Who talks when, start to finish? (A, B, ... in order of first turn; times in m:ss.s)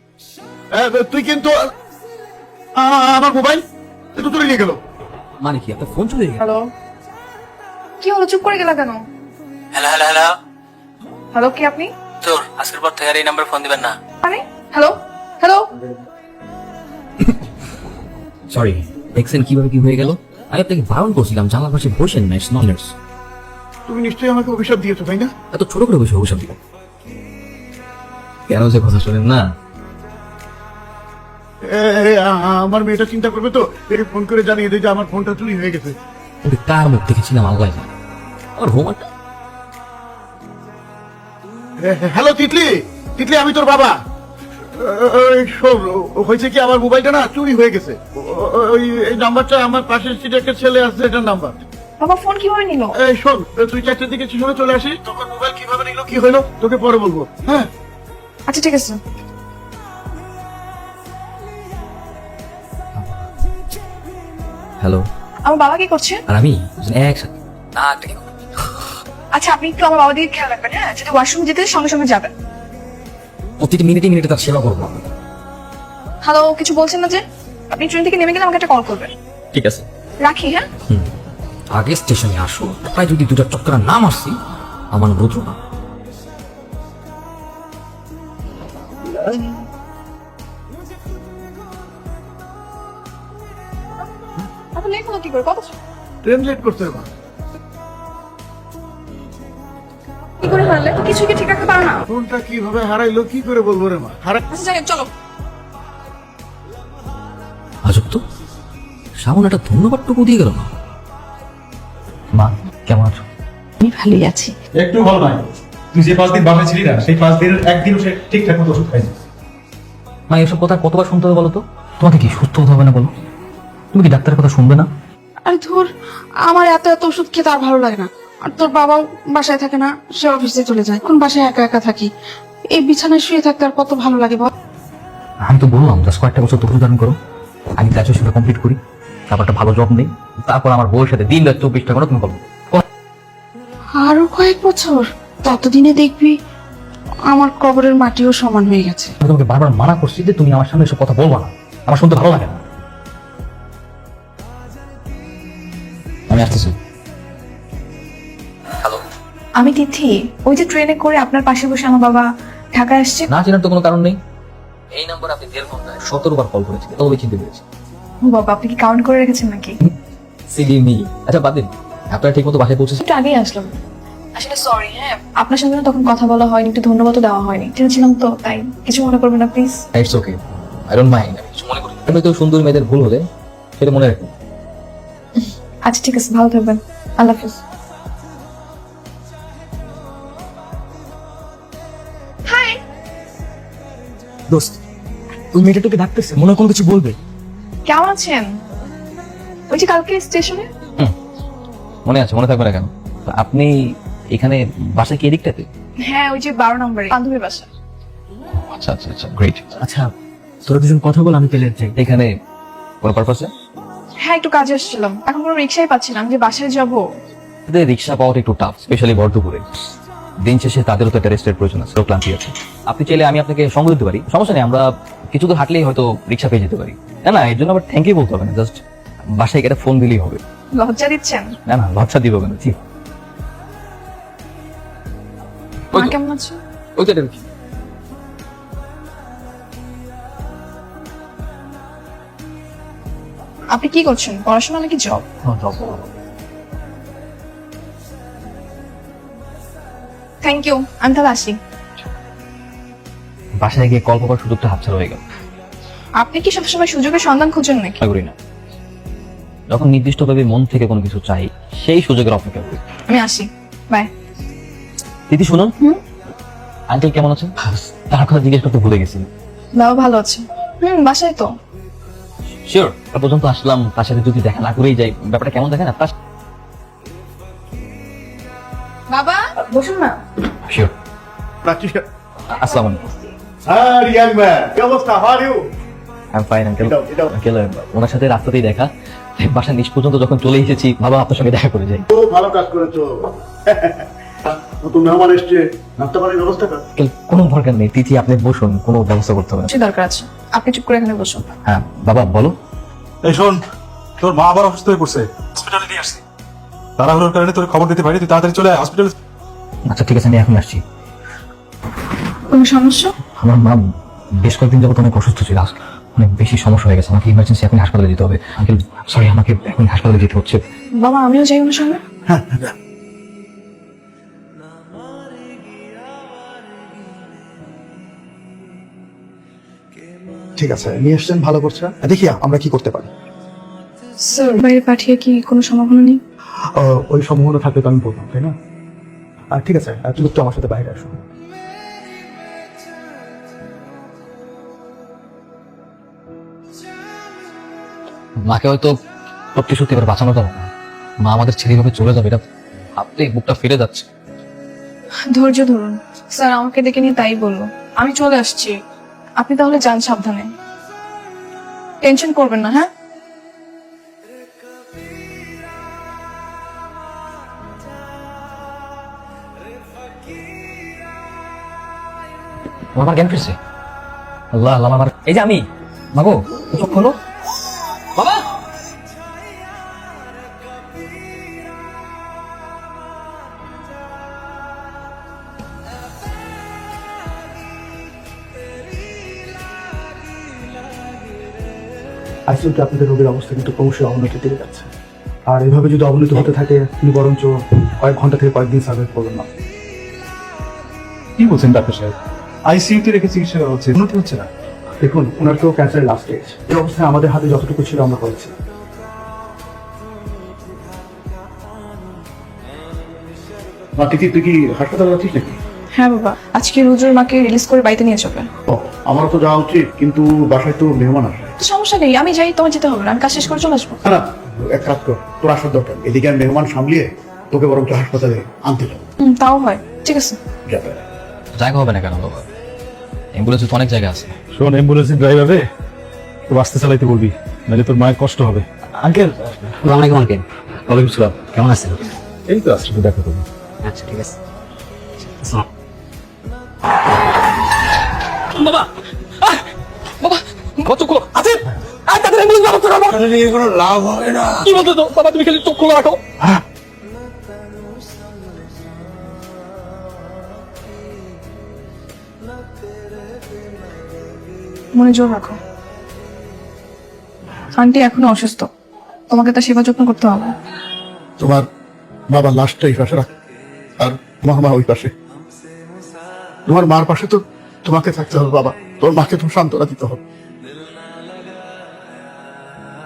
0:00.7-0:01.6 A
0:02.8-0:03.6 A
0:04.2-0:04.8 A
0:05.4-0:06.4 B
0:06.4-0:06.7 C
0:08.0-0:09.0 C
0:09.8-0:10.4 D
0:11.3-0:11.9 C
0:12.2-0:14.0 D
0:14.2-0:15.7 C
0:18.5-0:22.9 B
0:23.9-0:25.3 A
0:25.5-0:26.6 B
0:28.5-0:29.5 B
0:31.7-0:36.0 A
0:36.4-0:37.9 B
0:38.6-0:39.1 B
0:41.8-0:44.0 A
0:44.8-0:51.6 A
0:52.0-0:52.9 C
0:53.0-0:57.7 A
0:58.5-0:59.0 C
1:03.0-1:03.2 B
1:04.8-1:05.0 B
1:05.4-1:06.2 C
1:06.3-1:08.2 B
1:09.3-1:12.3 C
1:13.6-1:15.0 B
1:16.2-1:19.1 C
1:19.5-1:19.8 B
1:20.2-1:20.7 C
1:21.7-1:24.4 B
1:24.9-1:25.6 B
1:34.7-1:35.7 C
1:36.2-1:37.1 A
1:40.4-1:42.0 C
1:42.1-1:44.4 A
1:44.5-1:45.1 C
1:47.8-1:48.2 B
1:49.2-1:50.7 B
1:52.3-1:53.2 B
1:53.8-1:54.5 E
1:54.8-1:59.1 F
2:00.3-2:03.1 B
2:03.9-2:04.9 B
2:05.5-2:05.9 E
2:06.4-2:12.1 E
2:12.7-2:14.5 E
2:15.4-2:17.2 B
2:17.8-2:18.8 B
2:19.3-2:22.8 B
2:24.0-2:26.4 E
2:27.3-2:29.1 E
2:29.2-2:32.6 B
2:36.3-2:36.8 B
2:39.6-2:43.3 C
2:43.3-2:44.2 B
2:44.9-2:47.6 B
2:48.2-2:49.8 C
2:50.5-2:53.0 B
2:53.0-2:53.8 C
2:54.4-2:59.8 C
2:59.9-3:03.2 B
3:03.8-3:04.3 B
3:05.4-3:07.6 C
3:12.5-3:12.8 C
3:15.5-3:17.2 G
3:17.9-3:18.5 C
3:19.7-3:20.7 C
3:22.0-3:23.7 B
3:24.3-3:25.7 B
3:26.0-3:27.7 C
3:28.6-3:29.7 B
3:29.8-3:30.1 G
3:30.7-3:31.9 G
3:31.9-3:32.3 B
3:33.0-3:33.5 B
3:34.2-3:37.0 C
3:37.7-3:39.7 B
3:40.4-3:48.8 B
3:49.4-3:50.4 B
3:50.8-3:51.5 C
3:51.7-3:52.8 B
3:55.9-3:56.6 C
3:57.0-3:57.4 B
4:03.7-4:05.2 C
4:05.4-4:06.0 B
4:10.4-4:11.6 C
4:13.6-4:15.2 B
4:16.2-4:18.0 C
4:18.0-4:18.4 B
4:19.7-4:22.8 B
4:23.1-4:24.1 C
4:25.3-4:25.7 B
4:26.9-4:29.3 B
4:29.8-4:31.5 C
4:32.6-4:36.1 B
4:39.1-4:40.2 C
4:40.7-4:40.9 B
4:41.6-4:42.0 A
4:42.5-4:43.1 B
4:43.7-4:45.6 A
4:46.3-4:52.1 B
4:46.8-4:47.3 A
4:52.1-4:56.8 A
4:57.0-4:59.7 B
4:59.7-5:01.5 C
5:01.6-5:02.6 B
5:03.2-5:03.6 F
5:04.2-5:06.2 F
5:07.0-5:09.1 F
5:09.9-5:10.8 B
5:12.5-5:13.2 C
5:13.4-5:13.8 B
5:14.4-5:20.6 B
5:21.0-5:22.0 C
5:22.3-5:22.7 A
5:30.6-5:33.1 H
5:34.2-5:36.2 C
5:36.8-5:38.6 H
5:39.5-5:41.2 H
5:48.4-5:48.9 B
5:49.6-5:50.7 B
5:51.2-5:52.4 B
5:53.0-5:54.1 B
5:55.3-5:58.7 C
5:59.4-6:00.5 C
6:02.0-6:02.9 C
6:12.9-6:13.6 B
6:14.5-6:17.2 B
6:18.1-6:18.5 B
6:32.5-6:34.9 H
6:35.5-6:39.5 H
6:41.4-6:42.1 F
6:42.7-6:44.5 F
6:45.0-6:48.5 H
6:54.0-6:55.6 A
6:56.0-6:58.5 C
6:58.7-7:01.5 A
7:01.6-7:04.0 C
7:04.0-7:09.0 A
7:09.2-7:10.4 C
7:10.7-7:11.0 A
7:11.6-7:12.5 B
7:13.3-7:14.3 B
7:14.5-7:15.6 F
7:16.5-7:18.7 F
7:22.5-7:23.4 F
7:28.6-7:28.9 B
7:30.2-7:33.3 B
7:34.5-7:36.2 B
7:45.0-7:45.6 C
7:47.8-7:48.7 C
7:49.3-7:50.6 C
7:51.4-7:51.6 A
7:52.3-7:53.3 A
7:54.0-7:55.1 A
7:56.7-8:00.2 A